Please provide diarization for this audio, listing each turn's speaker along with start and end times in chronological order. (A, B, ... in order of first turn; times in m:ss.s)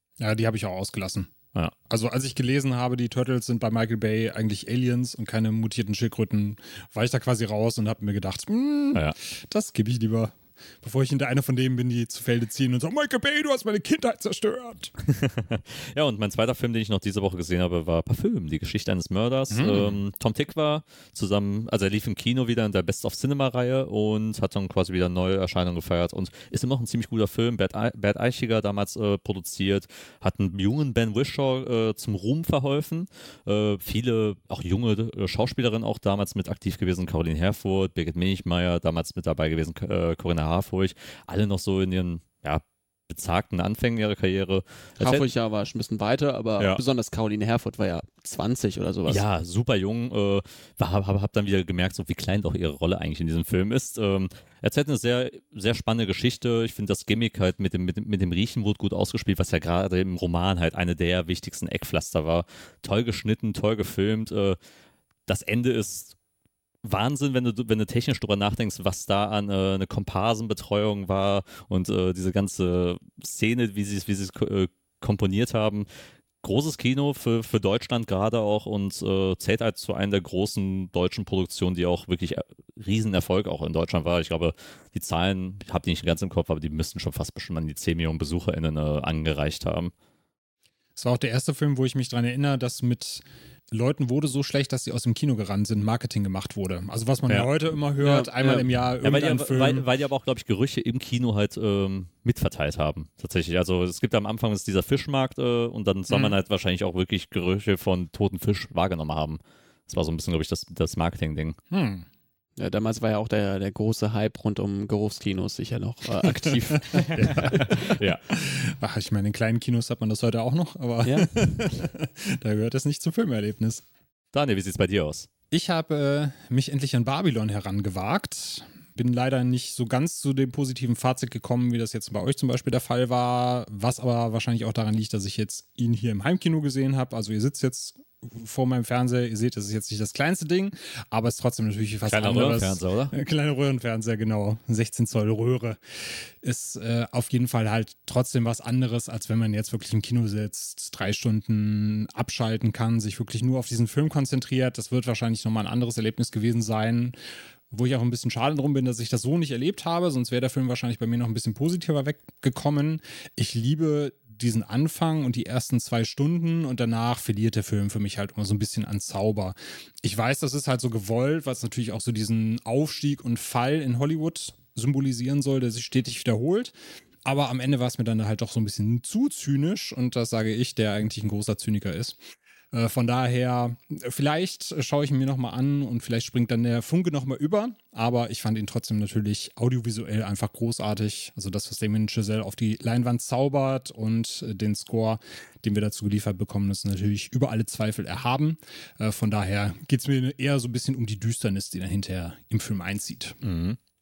0:00.2-0:01.3 A
0:01.9-0:14.9 A
0:15.0-0:45.2 B
0:19.5-0:20.0 A
0:45.0-0:49.2 C
0:49.1-1:04.6 B
1:05.3-1:06.1 B
1:06.8-1:15.9 B
1:16.4-1:29.9 B
1:31.0-1:39.9 A
1:38.1-1:51.6 B
1:46.1-1:46.4 A
1:51.7-1:52.0 A
1:52.6-1:57.0 C
1:56.9-1:58.2 B
1:57.0-1:57.8 A
1:58.3-2:03.8 A
2:01.0-2:01.5 C
2:04.3-2:05.3 B
2:05.5-2:37.1 A
2:22.1-2:23.1 B
2:37.7-2:56.7 A
2:57.2-3:02.2 A
3:02.7-3:23.4 A
3:23.4-3:23.8 B